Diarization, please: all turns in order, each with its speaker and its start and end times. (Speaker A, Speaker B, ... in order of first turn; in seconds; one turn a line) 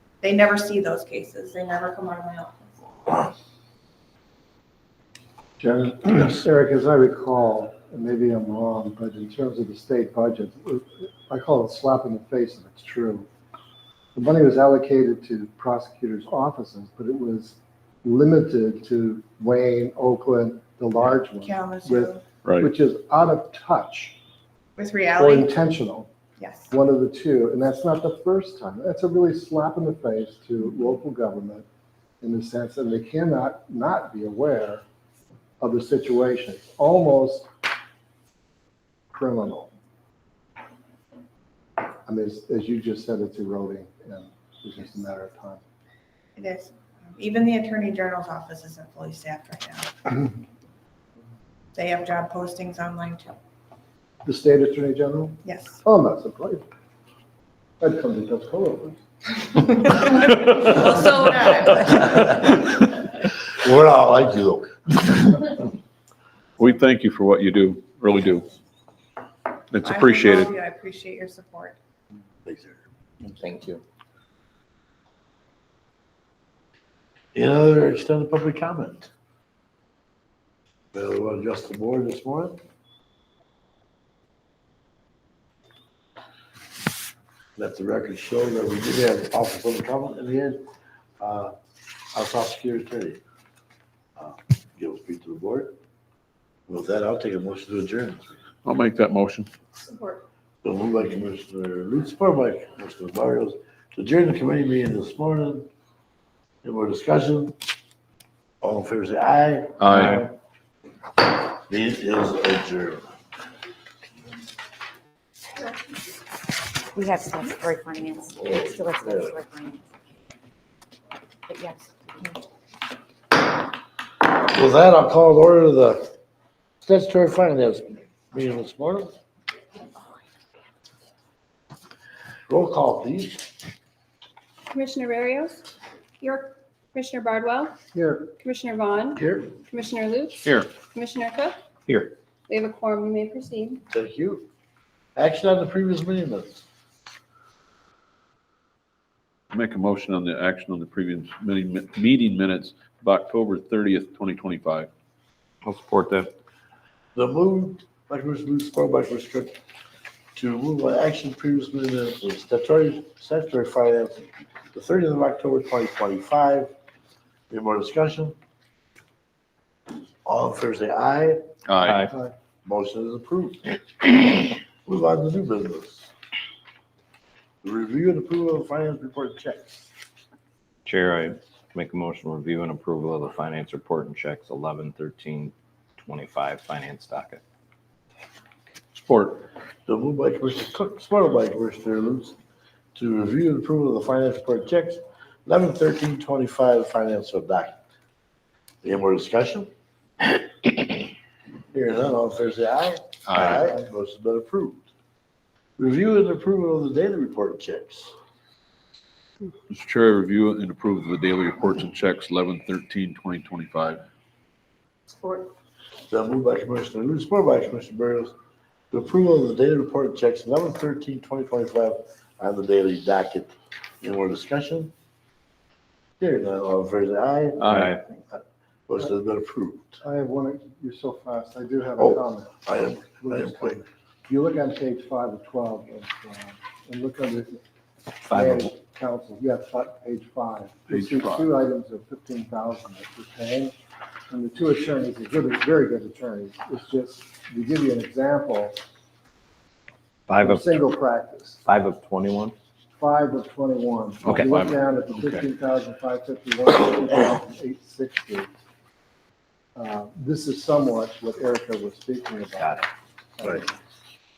Speaker A: 0.2-2.7
Speaker B: 5.6-13.3
Speaker B: 14.2-24.2
Speaker A: 21.4-22.2
Speaker C: 22.4-22.7
Speaker A: 24.8-25.5
Speaker B: 25.2-26.1
Speaker A: 26.4-26.7
Speaker B: 26.7-31.7
Speaker B: 32.2-34.8
Speaker B: 35.6-37.5
Speaker B: 39.1-39.7
Speaker B: 42.1-45.6
Speaker A: 46.4-50.1
Speaker A: 51.8-53.4
Speaker B: 54.2-56.6
Speaker A: 55.4-55.8
Speaker B: 57.8-59.0
Speaker A: 60.0-62.3
Speaker D: 61.9-65.7
Speaker C: 66.6-68.5
Speaker C: 69.7-70.5
Speaker A: 69.8-71.8
Speaker D: 72.5-72.8
Speaker D: 77.3-79.1
Speaker D: 80.9-82.6
Speaker D: 87.6-90.7
Speaker D: 91.2-91.5
Speaker D: 92.1-93.2
Speaker D: 94.2-95.7
Speaker D: 96.7-98.4
Speaker C: 98.7-99.5
Speaker D: 100.6-105.7
Speaker D: 106.6-107.5
Speaker D: 108.6-110.2
Speaker C: 109.8-110.3
Speaker D: 111.7-113.1
Speaker E: 117.0-119.8
Speaker D: 118.4-119.4
Speaker E: 121.5-122.4
Speaker D: 124.4-126.1
Speaker D: 126.8-129.1
Speaker D: 132.5-133.5
Speaker F: 134.7-135.7
Speaker F: 136.2-137.8
Speaker B: 137.9-138.3
Speaker F: 138.3-141.6
Speaker D: 139.2-139.5
Speaker G: 141.9-142.1
Speaker F: 142.5-143.8
Speaker D: 143.9-144.5
Speaker D: 145.2-146.6
Speaker C: 149.5-154.9
Speaker G: 155.6-156.3
Speaker D: 157.2-159.6
Speaker D: 160.4-166.7
Speaker D: 167.5-168.4
Speaker D: 170.2-171.4
Speaker C: 171.7-172.1
Speaker G: 171.8-172.1
Speaker D: 172.7-176.1
Speaker D: 177.6-179.9
Speaker G: 180.9-187.4
Speaker C: 188.9-189.5
Speaker D: 189.9-192.4
Speaker D: 192.9-197.8
Speaker D: 198.8-199.7
Speaker D: 200.2-201.1
Speaker D: 201.7-204.9
Speaker C: 203.3-203.7
Speaker D: 205.8-208.1
Speaker C: 209.7-214.0
Speaker D: 216.1-218.3
Speaker D: 218.9-224.9
Speaker D: 226.2-230.0
Speaker C: 227.6-228.0
Speaker G: 227.7-228.0
Speaker B: 230.0-237.6
Speaker D: 232.0-233.8
Speaker B: 238.3-243.8
Speaker G: 238.3-238.7
Speaker C: 240.9-241.5
Speaker B: 244.3-248.8
Speaker G: 250.3-250.7
Speaker B: 250.3-251.6
Speaker G: 251.7-252.6
Speaker B: 253.0-258.5
Speaker C: 254.2-255.5
Speaker G: 254.2-254.5
Speaker B: 259.8-262.9
Speaker B: 263.4-263.7